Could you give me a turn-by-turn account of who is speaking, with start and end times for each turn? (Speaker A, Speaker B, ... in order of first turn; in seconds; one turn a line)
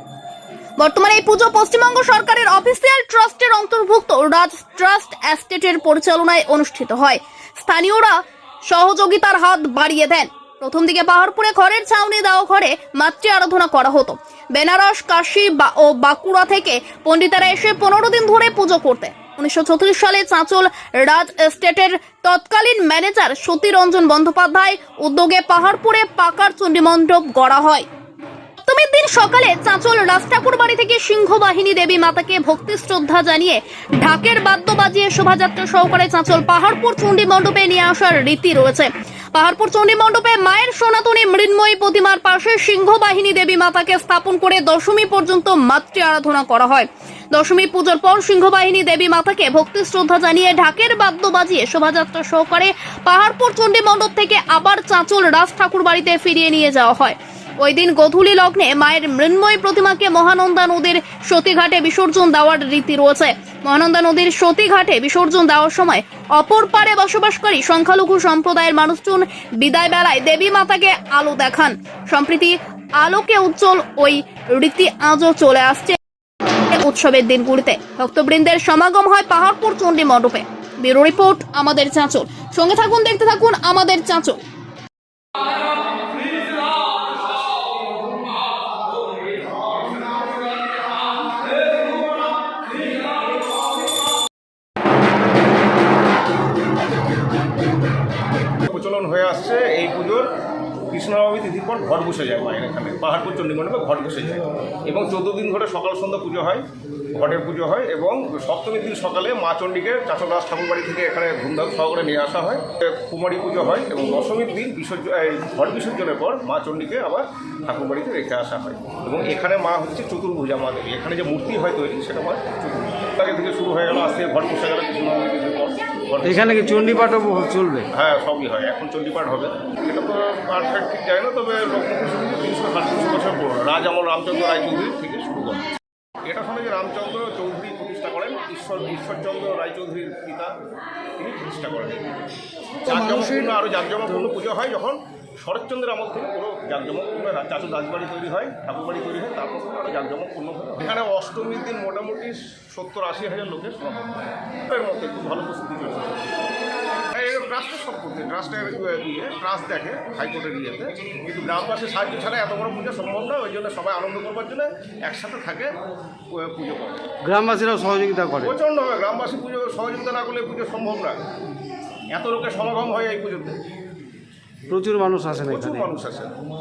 Speaker A: 0.8-27.9
Speaker A: 28.6-76.0
Speaker A: 76.7-84.4
Speaker B: 98.7-100.3
Speaker B: 100.9-126.7
Speaker C: 126.2-127.9
Speaker B: 127.9-135.6
Speaker B: 136.2-140.5
Speaker B: 141.2-142.0
Speaker B: 142.8-156.3
Speaker C: 142.9-143.6
Speaker B: 157.1-165.7
Speaker B: 166.3-167.2
Speaker C: 167.2-168.5
Speaker B: 168.4-171.2
Speaker B: 172.1-173.6
Speaker C: 174.7-175.9
Speaker B: 175.4-176.3